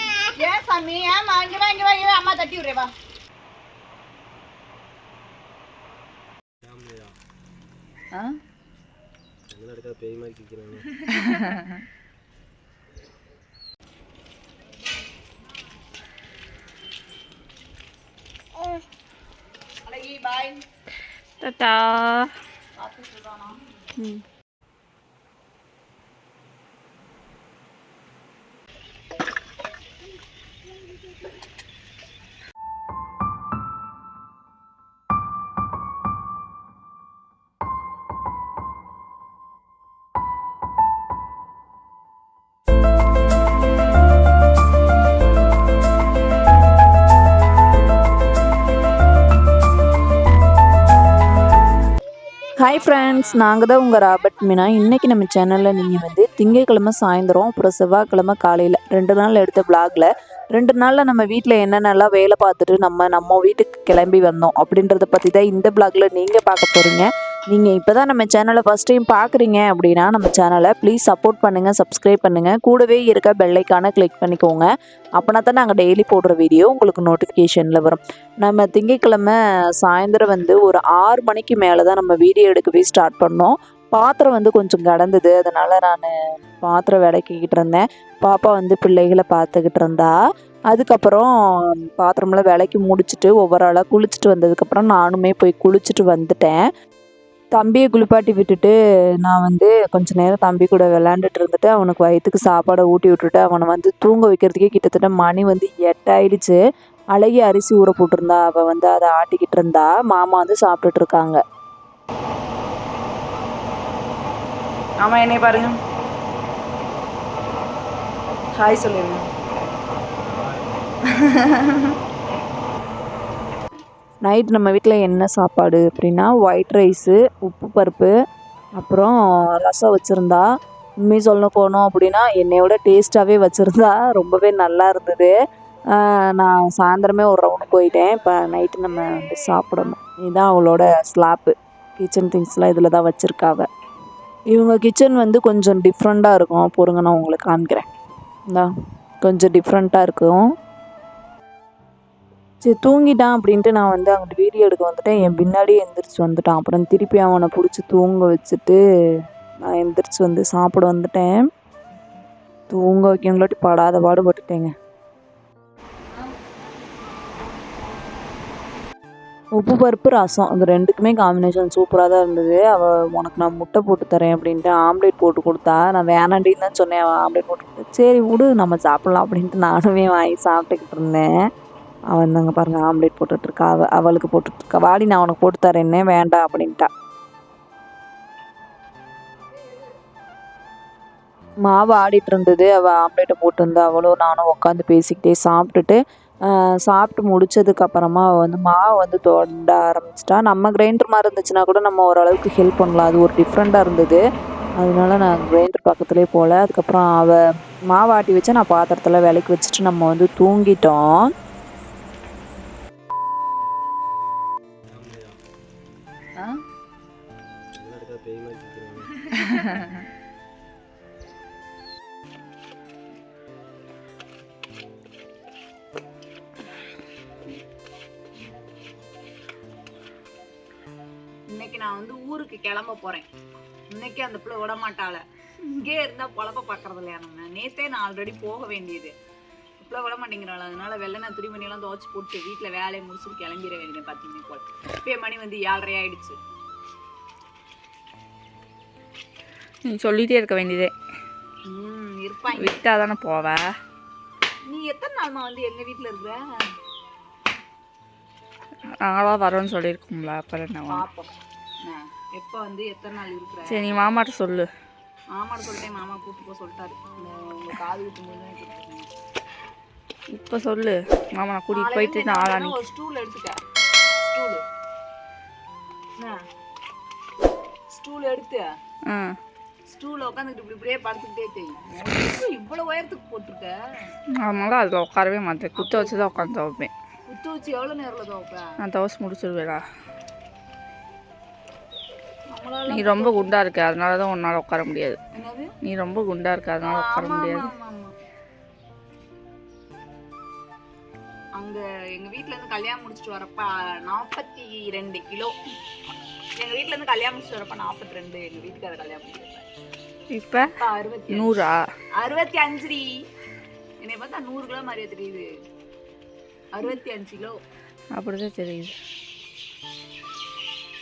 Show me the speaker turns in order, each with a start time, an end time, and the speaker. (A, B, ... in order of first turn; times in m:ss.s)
0:00.4-0:02.9 A
0:06.6-0:07.1 B
0:09.5-0:11.0 B
0:19.8-0:20.6 A
0:21.4-0:22.3 C
0:22.8-0:23.6 A
0:24.0-0:24.2 C
0:52.6-1:30.1 D
1:30.7-1:36.6 D
1:37.5-1:46.6 D
1:47.1-1:51.4 D
1:55.0-1:55.8 A
1:58.5-1:59.3 A
2:01.0-2:01.9 A
2:04.2-2:08.1 D
2:08.8-2:10.4 D
2:11.0-2:15.3 D
2:15.9-2:23.7 D
2:19.0-2:19.6 A
2:24.5-2:27.8 D
2:29.2-2:30.4 D
2:32.6-2:38.8 D
2:39.6-2:41.4 D
2:42.7-2:44.7 D
2:49.6-3:01.3 D
3:02.1-3:06.9 D
3:11.6-3:24.2 D
3:24.8-3:31.3 D
3:34.9-3:35.4 B
3:37.7-3:39.3 B
3:51.5-3:53.3 A
3:53.9-3:59.1 A
3:59.8-4:06.4 A
4:09.8-4:10.9 C
4:11.7-4:12.8 A
4:12.6-4:13.7 C
4:14.7-4:16.4 A
4:19.0-4:21.0 C
4:20.9-4:21.3 A
4:21.8-4:24.1 A
4:23.7-4:24.7 C
4:25.4-4:29.1 A
4:30.3-4:32.7 C
4:31.7-4:33.6 A
4:34.2-4:34.6 A
4:37.9-4:38.7 A
4:39.1-4:39.4 C
4:39.9-4:43.7 A
4:44.4-4:46.9 C
4:45.8-4:46.3 A
4:47.3-4:48.6 A
4:48.8-4:49.8 C
4:52.5-4:53.6 A
4:52.9-4:55.2 C
4:55.3-4:55.7 A
4:55.8-4:57.7 C
4:56.8-4:58.1 A
5:01.6-5:05.5 A
5:06.6-5:09.6 A
5:10.3-5:10.7 C
5:10.8-5:11.5 A
5:11.3-5:11.8 C
5:12.2-5:13.1 A
5:14.0-5:15.4 A
5:16.7-5:17.6 A
5:18.1-5:18.9 C